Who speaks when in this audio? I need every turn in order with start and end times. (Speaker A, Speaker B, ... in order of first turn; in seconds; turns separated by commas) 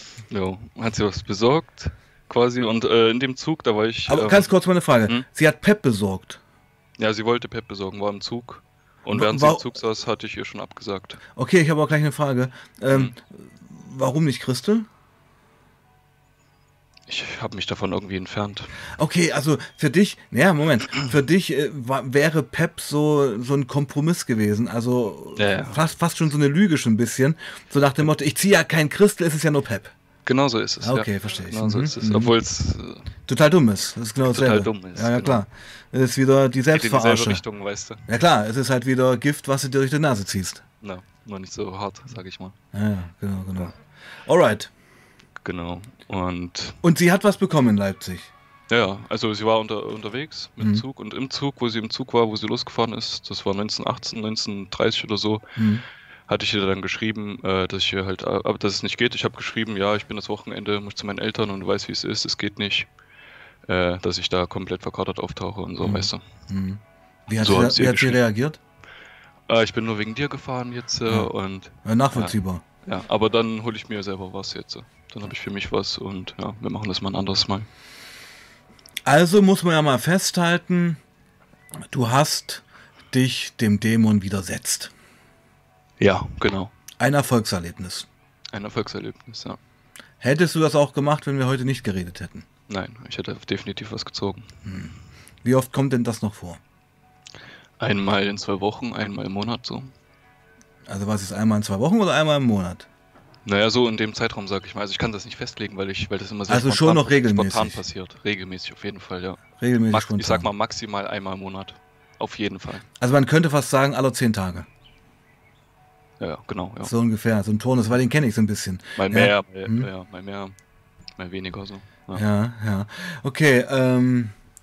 Speaker A: 0.3-4.5, Speaker B: 4.1-6.4, Speaker A: 7.0-11.2, Speaker B: 9.1-9.6, Speaker B: 11.3-14.9, Speaker A: 17.1-18.8, Speaker B: 18.9-29.9, Speaker A: 25.4-25.8, Speaker A: 30.3-33.1, Speaker B: 30.8-32.3, Speaker B: 33.3-37.4, Speaker A: 34.2-35.4, Speaker A: 36.7-38.1, Speaker B: 38.1-40.6, Speaker A: 40.8-42.5, Speaker B: 42.7-44.7, Speaker A: 45.4-46.8, Speaker B: 46.8-48.3, Speaker A: 48.7-55.6, Speaker B: 55.6-55.8, Speaker A: 56.3-62.9, Speaker A: 63.7-66.2, Speaker B: 65.8-68.6, Speaker A: 67.4-68.2, Speaker A: 69.5-77.7, Speaker B: 71.8-72.6, Speaker B: 79.0-81.0, Speaker B: 81.9-84.9, Speaker A: 86.0-86.7, Speaker B: 87.0-88.1, Speaker A: 88.5-89.6, Speaker B: 90.2-92.5, Speaker A: 92.7-94.5, Speaker B: 94.7-96.6, Speaker A: 97.8-99.9, Speaker B: 100.9-102.9, Speaker A: 103.5-112.9, Speaker B: 106.5-107.8, Speaker B: 109.6-110.5, Speaker B: 113.0-114.7, Speaker A: 116.2-116.9, Speaker B: 116.8-119.9, Speaker A: 119.0-120.5, Speaker A: 121.2-122.2, Speaker B: 122.2-124.3